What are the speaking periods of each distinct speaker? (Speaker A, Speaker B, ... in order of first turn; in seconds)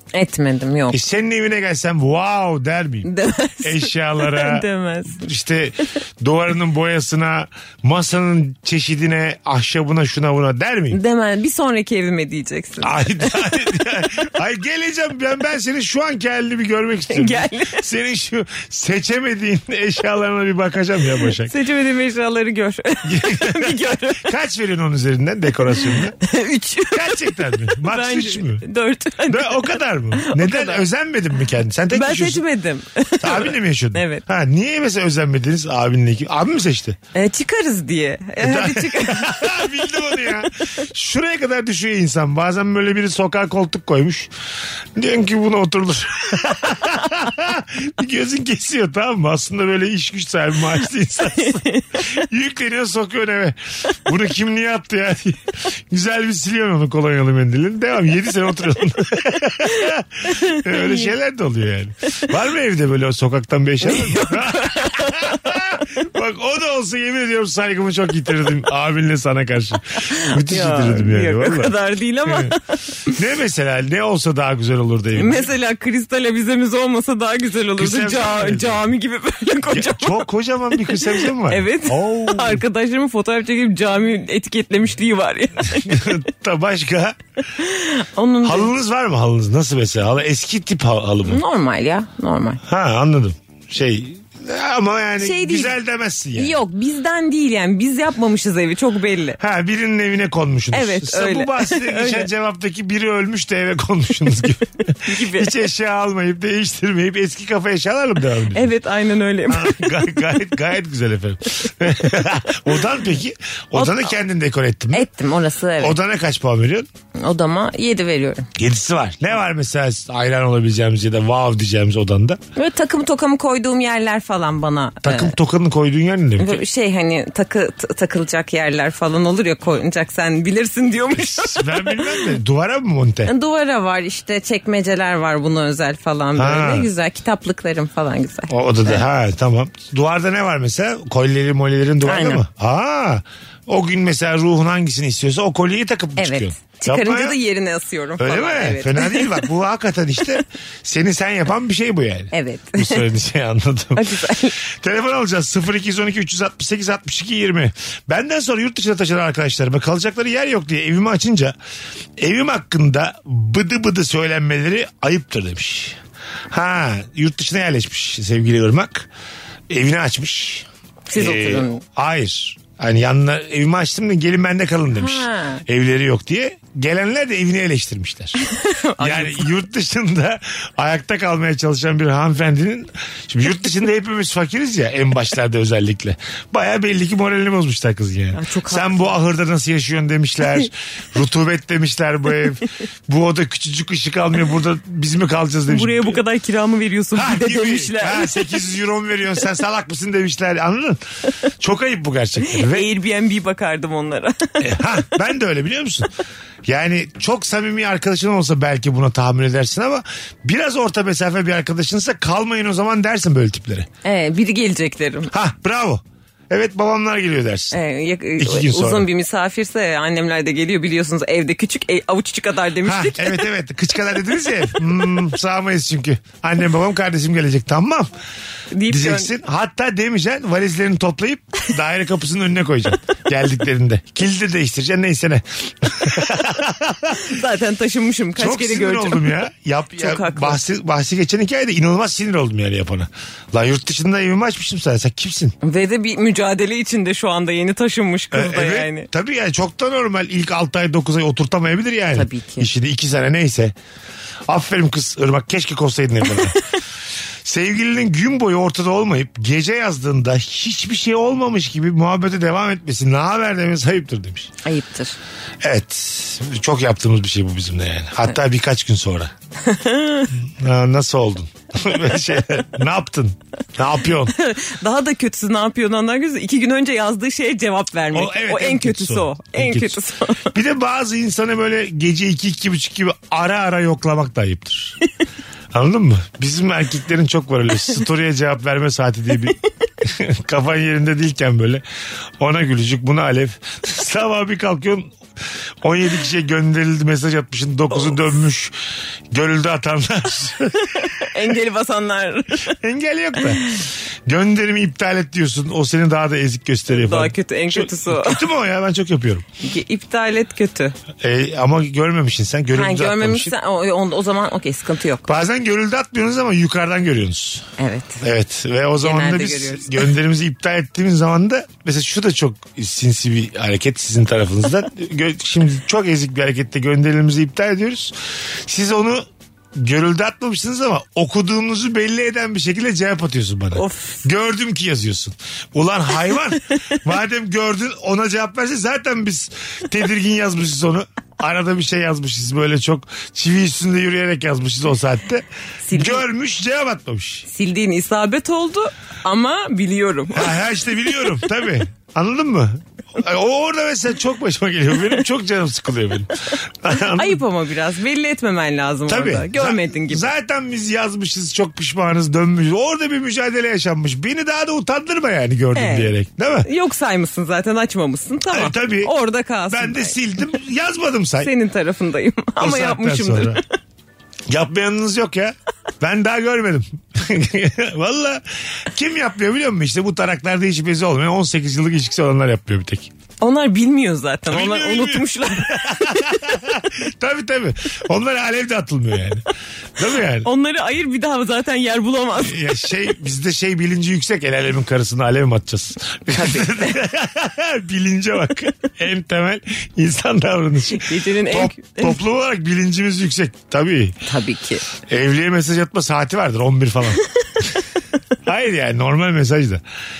Speaker A: 0.1-1.0, 3.0-5.2, 10.9-13.3, 17.1-17.8, 21.4-24.3, 26.2-30.9, 31.9-34.2, 37.1-39.8, 51.4-51.8, 60.3-61.1, 63.8-65.5, 70.1-72.6, 75.2-80.3, 80.8-86.1, 87.6-88.7, 91.2-92.6, 95.2-95.7, 96.3-99.4, 100.7-102.3, 105.0-105.5, 108.5-109.9, 113.7-114.1, 114.9-116.0, 117.2-118.5, 122.5-125.3, 126.4-132.3, 133.2-139.0, 142.0-142.4, 146.2-149.4, 152.3-153.1, 153.9-154.6, 171.1-171.8, 174.9-175.6, 178.4-179.5, 188.3-189.1, 195.7-198.6, 202.5-204.7, 214.0-215.3, 217.7-223.4, 228.7-229.3, 237.2-239.4, 239.9-240.6, 245.6-249.1, 252.1-252.7, 264.6-265.2, 269.6-270.3, 274.3-280.5, 301.0-302.7, 306.9-308.4, 309.6-310.9, 312.7-315.2, 317.8-318.2, 319.0-320.1, 333.7-334.2, 345.9-346.2, 347.5-350.5, 357.1-360.3, 365.7-366.1, 366.6-370.2, 371.4-373.6, 383.4-386.4, 390.4-392.6, 396.3-397.0, 400.9-402.2, 404.2-404.8
Speaker B: 0.9-3.1, 3.6-11.0, 12.8-21.5, 23.0-26.1, 26.9-28.6, 29.3-32.4, 33.2-37.0, 38.4-44.3, 45.0-72.5, 73.1-75.5, 77.8-78.9, 79.7-82.6, 85.7-87.2, 88.4-91.4, 92.6-96.6, 99.4-108.7, 109.5-115.1, 115.8-116.9, 118.5-122.4, 125.0-126.6, 131.1-133.3, 136.3-136.9, 138.5-147.4, 148.2-161.5, 162.2-166.0, 166.5-169.1, 169.7-178.4, 179.0-196.2, 197.1-201.0, 201.6-202.9, 204.6-206.1, 206.7-213.9, 215.3-217.8, 218.4-219.1, 222.8-228.1, 228.9-237.2, 238.4-245.5, 248.3-253.7, 254.5-256.6, 257.4-264.5, 265.6-269.3, 270.6-274.3, 278.1-280.0, 280.5-285.0, 285.7-291.8, 292.4-295.1, 295.8-298.7, 299.3-301.0, 302.7-303.7, 304.2-309.4, 311.2-313.5, 315.2-317.7, 318.2-347.4, 350.3-357.4, 359.1-366.7, 368.5-369.1, 369.7-371.5, 372.6-373.6, 374.5-383.1, 384.5-389.4, 390.0-390.5, 392.4-404.1, 405.1-407.2, 408.4-409.8